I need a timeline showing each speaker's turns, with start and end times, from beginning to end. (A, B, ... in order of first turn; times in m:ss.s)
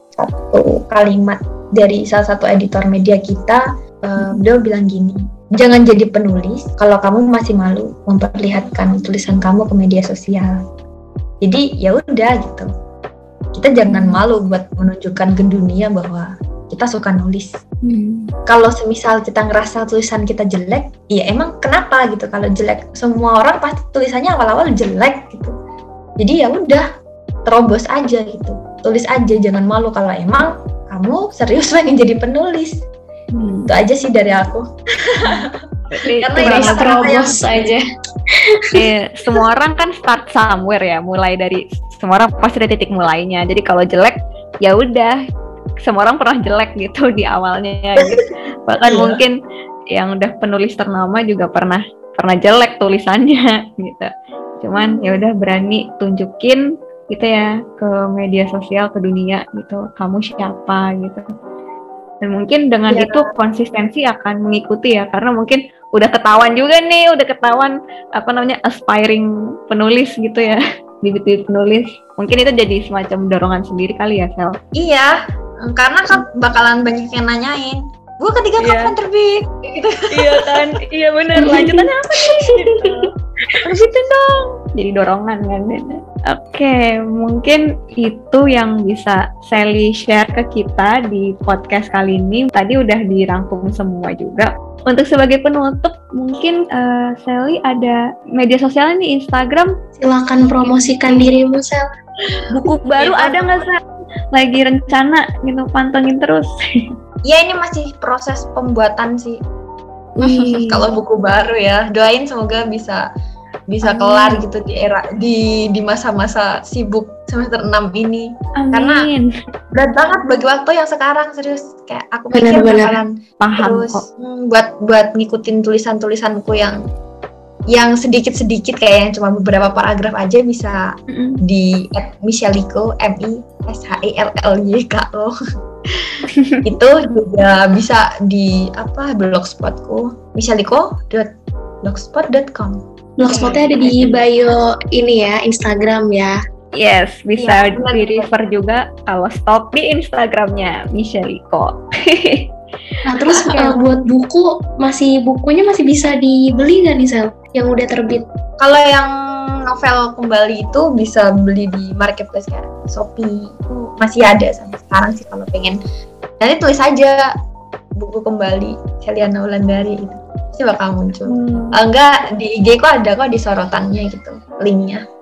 0:00.2-0:10.6 A
0:04.2-0:04.4 B
0:11.4-0:12.7 A
0:13.5-0:17.6 A
0:13.9-0:14.2 B
0:17.8-0:18.3 B
0:18.5-0:25.5 A
0:26.2-0:26.9 A
0:27.5-0:32.8 A
0:33.3-0:33.7 B
0:33.7-0:35.5 A
0:35.2-0:37.4 B
0:36.1-0:37.8 A
0:36.4-0:37.8 C
0:38.7-0:45.2 B
0:45.8-0:49.4 B
0:48.8-0:49.2 A
0:49.9-1:01.2 B
0:54.8-0:55.2 A
1:02.2-1:14.6 B
1:02.9-1:03.3 A
1:14.8-1:20.7 A
1:18.6-1:18.9 B
1:20.1-1:23.1 B
1:21.4-1:22.9 C
1:23.6-1:39.7 B
1:40.0-1:41.8 C
1:42.5-1:43.8 B
1:43.0-1:43.7 A
1:44.3-1:46.5 B
1:47.3-1:49.4 A
1:50.2-1:50.8 B
1:50.2-1:53.0 A
1:53.7-1:59.0 A
1:53.8-1:54.4 B
1:58.6-1:59.3 B
1:59.7-2:06.8 A
2:02.3-2:02.9 C
2:03.4-2:04.0 B
2:07.7-2:10.8 A
2:11.1-2:11.4 B
2:11.4-2:15.3 A
2:15.9-2:21.3 A
2:21.8-2:24.0 A
2:23.2-2:26.4 C
2:23.3-2:24.2 B
2:26.8-2:32.5 B
2:27.4-2:28.3 A
2:33.1-2:38.2 C
2:33.4-2:33.8 A
2:38.6-2:39.1 A
2:39.7-2:45.8 A
2:46.4-2:47.2 A
2:48.0-2:55.0 A
2:51.3-2:51.8 B